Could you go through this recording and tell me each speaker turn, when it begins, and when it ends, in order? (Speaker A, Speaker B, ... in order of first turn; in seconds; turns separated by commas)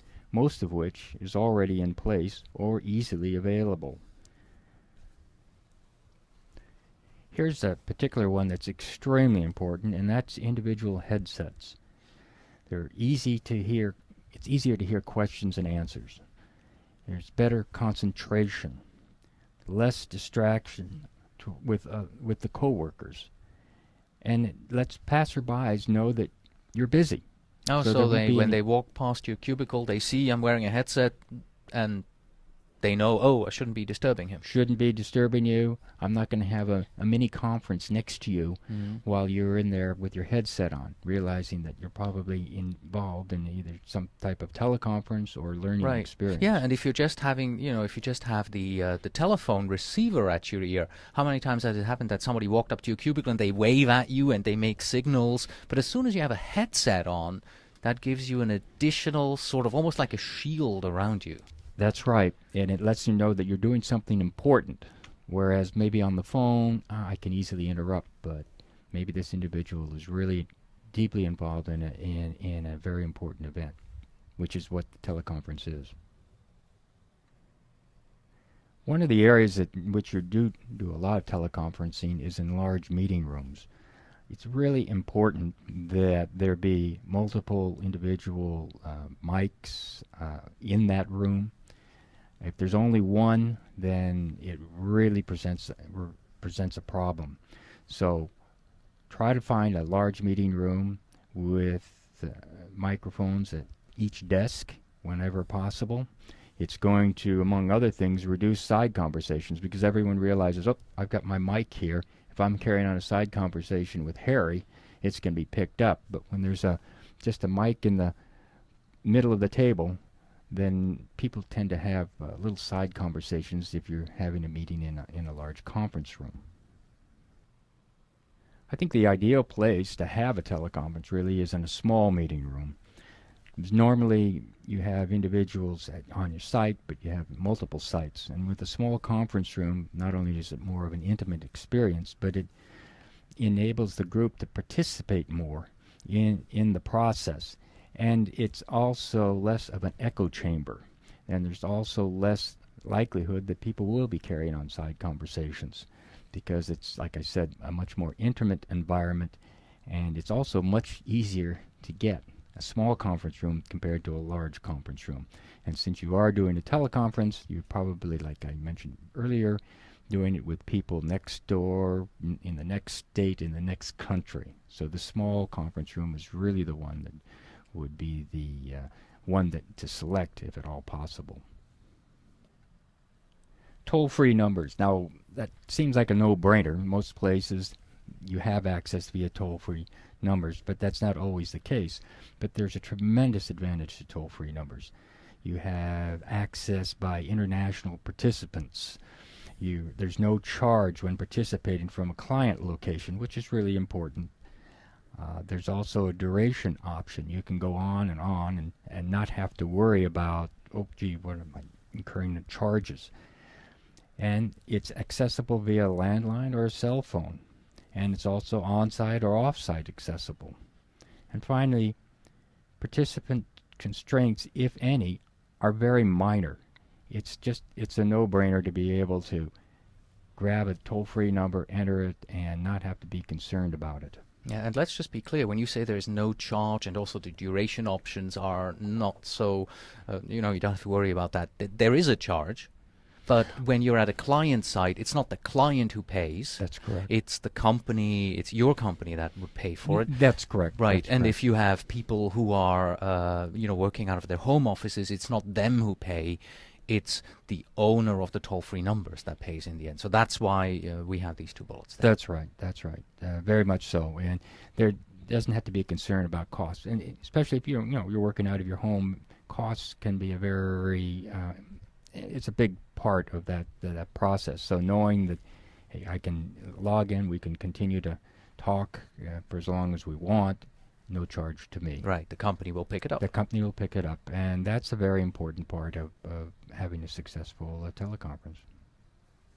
Speaker A: 0.3-4.0, Speaker A: 7.3-11.8, Speaker A: 12.7-16.2, Speaker A: 17.1-18.8, Speaker A: 19.7-23.3, Speaker A: 24.2-27.2, Speaker B: 27.7-32.0, Speaker A: 27.8-28.6, Speaker B: 32.8-34.4, Speaker A: 34.4-46.6, Speaker B: 38.7-39.0, Speaker B: 45.8-61.5, Speaker A: 61.8-73.8, Speaker A: 74.4-75.9, Speaker A: 78.9-83.7, Speaker A: 84.3-91.5, Speaker A: 92.4-98.3, Speaker A: 99.1-118.1, Speaker A: 119.0-120.0, Speaker A: 120.5-126.4, Speaker A: 128.7-132.8, Speaker A: 133.6-142.5, Speaker A: 143.4-181.4, Speaker A: 183.9-199.0, Speaker A: 199.6-204.3, Speaker A: 205.2-213.1, Speaker A: 214.2-217.4, Speaker A: 217.9-220.6, Speaker A: 221.3-222.0, Speaker A: 222.8-229.5, Speaker A: 230.4-234.2, Speaker B: 234.4-242.7, Speaker B: 243.3-262.1, Speaker A: 246.6-247.1, Speaker A: 249.9-251.3, Speaker A: 262.0-282.1, Speaker B: 282.0-283.3, Speaker A: 283.2-288.6